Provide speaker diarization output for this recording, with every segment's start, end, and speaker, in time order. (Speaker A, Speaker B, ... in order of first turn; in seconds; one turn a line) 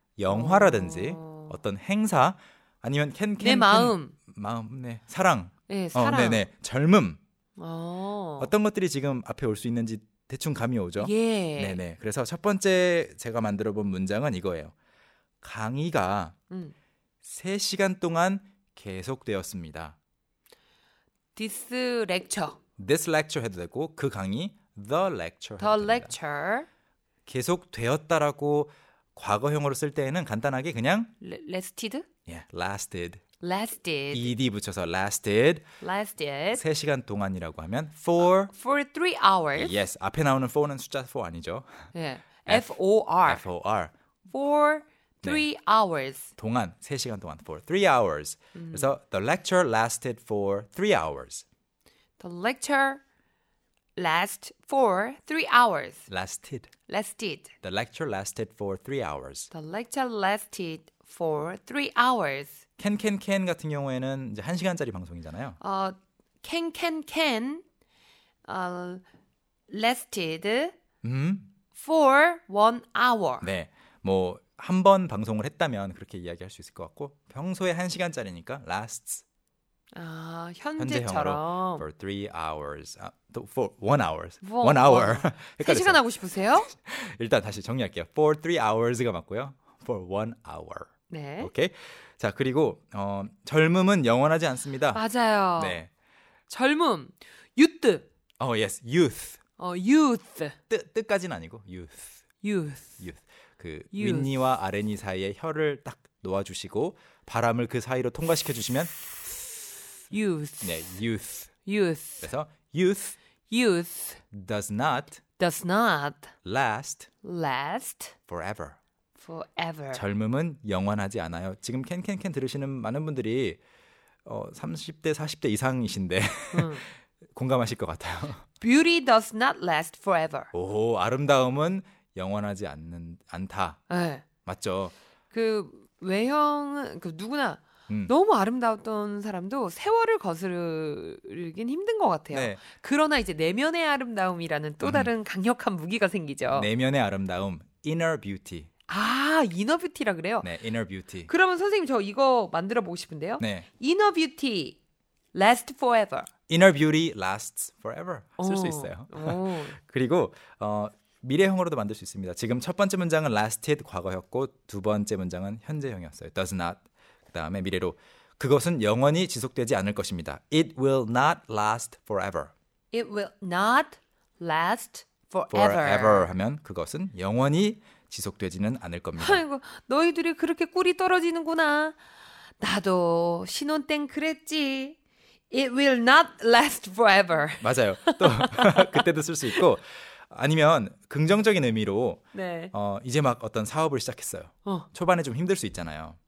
Speaker A: 0.2-7.2
Speaker B: 0.3-1.6
Speaker B: 3.4-4.1
Speaker B: 5.7-6.5
Speaker B: 7.6-8.5
Speaker A: 8.4-14.7
Speaker B: 11.0-11.8
Speaker A: 15.4-16.4
Speaker A: 17.2-20.0
Speaker B: 21.4-22.6
Speaker A: 22.8-26.1
Speaker B: 25.6-26.7
Speaker A: 27.3-31.1
Speaker B: 31.2-32.1
Speaker A: 32.3-33.2
Speaker B: 33.4-34.3
Speaker A: 34.1-35.6
Speaker B: 35.8-36.6
Speaker A: 36.5-38.5
Speaker B: 38.4-39.8
Speaker A: 39.6-41.7
Speaker B: 41.9-43.4
Speaker A: 42.5-43.9
Speaker B: 44.3-46.3
Speaker A: 46.4-51.4
Speaker B: 48.5-48.9
Speaker B: 52.2-53.0
Speaker B: 54.0-56.0
Speaker A: 56.1-56.7
Speaker B: 56.9-57.5
Speaker A: 57.6-59.5
Speaker B: 59.5-62.6
Speaker A: 62.8-65.6
Speaker B: 65.6-67.6
Speaker B: 68.5-69.0
Speaker B: 69.7-70.8
Speaker A: 71.0-71.5
Speaker B: 71.8-73.5
Speaker A: 73.4-79.2
Speaker B: 79.9-81.9
Speaker A: 80.8-86.0
Speaker B: 84.4-86.7
Speaker A: 86.7-95.0
Speaker B: 91.1-91.5
Speaker B: 94.9-95.8
Speaker A: 95.6-95.9
Speaker B: 96.5-98.1
Speaker A: 98.4-99.4
Speaker B: 99.6-100.6
Speaker A: 100.7-102.1
Speaker B: 102.4-103.0
Speaker A: 103.0-109.0
Speaker B: 103.9-104.3
Speaker B: 110.1-110.9
Speaker A: 110.6-111.5
Speaker B: 111.7-112.3
Speaker A: 112.2-113.2
Speaker B: 113.5-114.2
Speaker A: 114.3-115.2
Speaker B: 115.4-116.3
Speaker A: 116.5-117.1
Speaker B: 117.2-118.2
Speaker A: 118.3-118.8
Speaker B: 119.2-120.0
Speaker A: 119.9-123.6
Speaker A: 124.2-128.4
Speaker B: 126.5-126.8
Speaker B: 128.6-130.5
Speaker A: 130.5-133.8
Speaker B: 133.9-134.2
Speaker A: 134.4-134.9
Speaker B: 135.3-146.7
Speaker A: 142.3-142.6
Speaker A: 144.8-145.1
Speaker A: 146.5-148.7
Speaker B: 148.9-150.5
Speaker A: 150.4-151.3
Speaker B: 151.3-154.8
Speaker A: 153.4-153.7
Speaker B: 155.3-156.3
Speaker A: 156.5-172.5
Speaker B: 158.4-159.8
Speaker B: 172.9-176.3
Speaker A: 175.5-179.4
Speaker B: 179.2-182.0
Speaker B: 182.6-185.0
Speaker B: 185.5-189.6
Speaker A: 187.6-196.2
Speaker B: 192.3-192.7